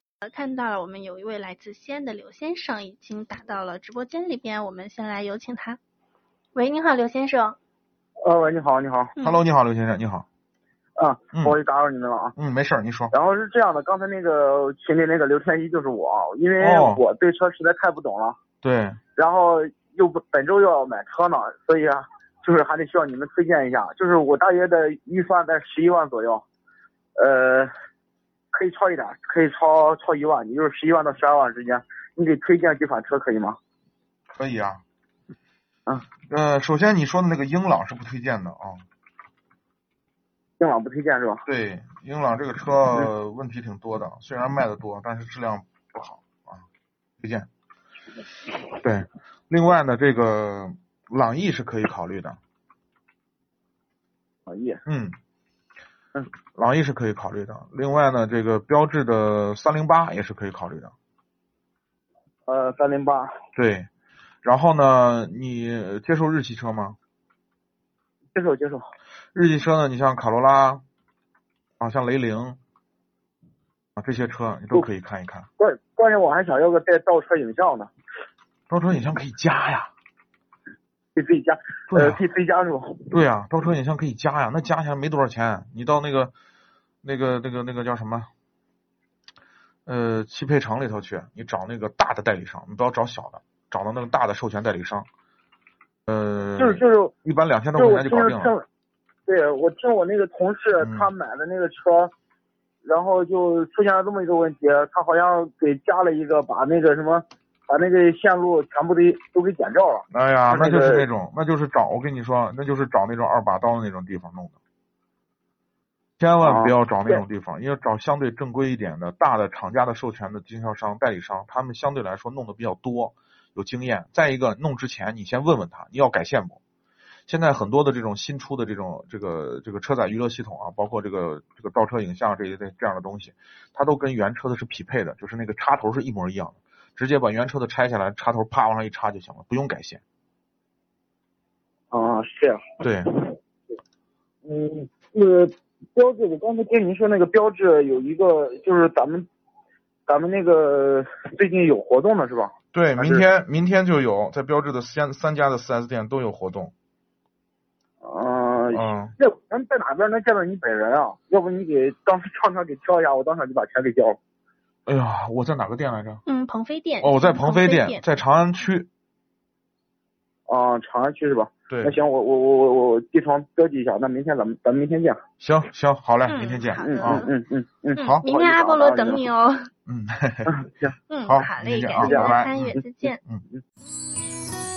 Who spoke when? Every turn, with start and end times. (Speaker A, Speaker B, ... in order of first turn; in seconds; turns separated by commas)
Speaker A: 0.2-5.8, Speaker A: 6.5-7.6, Speaker B: 8.2-9.1, Speaker C: 9.2-10.2, Speaker B: 11.0-12.3, Speaker C: 12.3-13.1, Speaker B: 13.1-18.4, Speaker C: 16.6-17.0, Speaker C: 18.6-19.0, Speaker B: 19.1-26.4, Speaker B: 27.2-27.7, Speaker B: 28.5-33.6, Speaker C: 34.3-34.8, Speaker C: 36.3-38.8, Speaker B: 40.6-41.4, Speaker C: 41.5-46.6, Speaker C: 47.2-47.5, Speaker C: 48.8-52.4, Speaker B: 54.5-54.8, Speaker C: 54.9-55.1, Speaker C: 56.5-60.9, Speaker B: 62.5-63.4, Speaker C: 63.5-63.9, Speaker C: 64.4-67.0, Speaker B: 68.3-68.9, Speaker C: 69.3-70.8, Speaker C: 71.8-72.6, Speaker C: 74.0-75.5, Speaker B: 75.6-77.9, Speaker C: 78.7-79.9, Speaker B: 81.1-83.1, Speaker C: 81.9-82.2, Speaker C: 83.1-86.3, Speaker C: 87.0-88.3, Speaker C: 89.8-95.1, Speaker C: 96.1-98.5, Speaker B: 96.6-97.1, Speaker B: 97.8-98.6, Speaker B: 99.3-102.1, Speaker C: 100.8-101.1, Speaker B: 102.8-111.0, Speaker C: 110.1-114.5, Speaker C: 116.2-126.6, Speaker B: 116.4-117.2, Speaker C: 127.3-140.0, Speaker B: 141.9-143.3, Speaker C: 142.8-143.1, Speaker B: 144.4-149.3, Speaker B: 150.1-153.2, Speaker C: 152.7-156.7, Speaker B: 158.0-164.2, Speaker C: 158.7-159.2, Speaker C: 164.8-166.2, Speaker A: 166.3-168.0, Speaker C: 167.0-168.9, Speaker B: 170.5-175.2, Speaker C: 171.7-171.9, Speaker C: 175.4-177.3, Speaker A: 176.3-177.3, Speaker B: 176.8-179.3, Speaker A: 177.9-179.7, Speaker C: 178.0-178.2, Speaker C: 179.9-180.6, Speaker B: 180.5-180.9, Speaker A: 181.1-183.2, Speaker C: 181.2-183.4, Speaker B: 182.0-182.3